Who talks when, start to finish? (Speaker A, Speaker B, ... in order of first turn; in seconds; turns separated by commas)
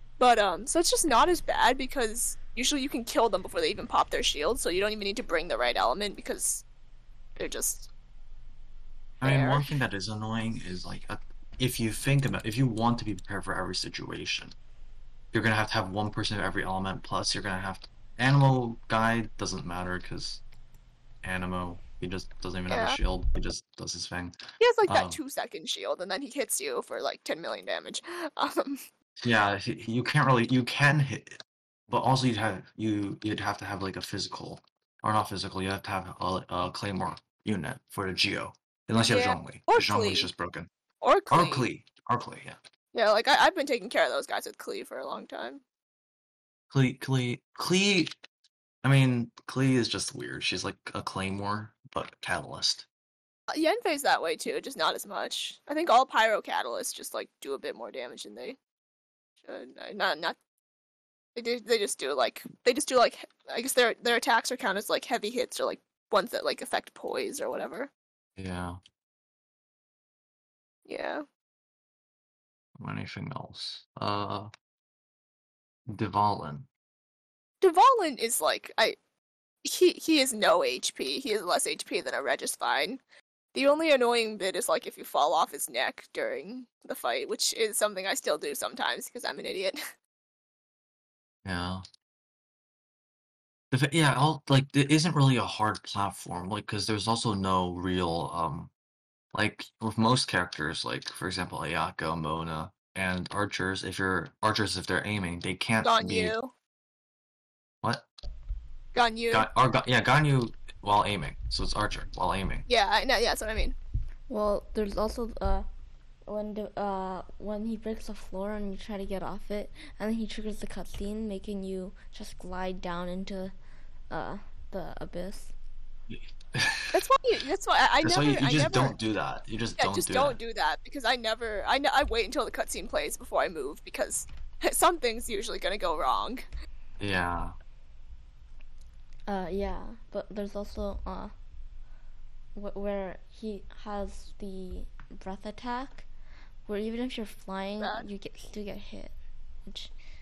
Speaker A: 0.2-6.6, Speaker A: 7.4-7.9, Speaker B: 9.2-14.5, Speaker A: 9.2-9.7, Speaker B: 15.3-20.4, Speaker B: 21.2-25.2, Speaker A: 22.7-23.0, Speaker A: 24.6-28.8, Speaker B: 29.2-40.7, Speaker A: 39.0-40.3, Speaker A: 41.0-41.7, Speaker B: 41.3-42.6, Speaker A: 42.9-45.6, Speaker B: 46.7-48.1, Speaker B: 48.8-52.9, Speaker A: 53.5-58.6, Speaker A: 59.4-60.4, Speaker A: 61.3-67.9, Speaker B: 68.4-68.8, Speaker A: 70.8-71.2, Speaker B: 72.8-74.5, Speaker B: 75.9-76.7, Speaker A: 77.6-79.0, Speaker A: 79.6-83.0, Speaker A: 83.5-89.8, Speaker B: 91.4-91.8, Speaker B: 93.7-98.7, Speaker B: 99.3-106.3, Speaker A: 105.8-106.5, Speaker A: 108.9-109.5, Speaker B: 109.3-112.7, Speaker A: 112.7-113.8, Speaker C: 114.3-115.7, Speaker C: 116.3-123.5, Speaker C: 124.1-125.5, Speaker B: 126.1-127.0, Speaker A: 126.9-129.0, Speaker B: 128.0-130.4, Speaker A: 129.8-136.4, Speaker B: 137.0-137.5, Speaker C: 139.3-141.3, Speaker C: 142.5-146.1, Speaker C: 146.7-149.1, Speaker A: 147.8-148.1, Speaker C: 149.7-149.9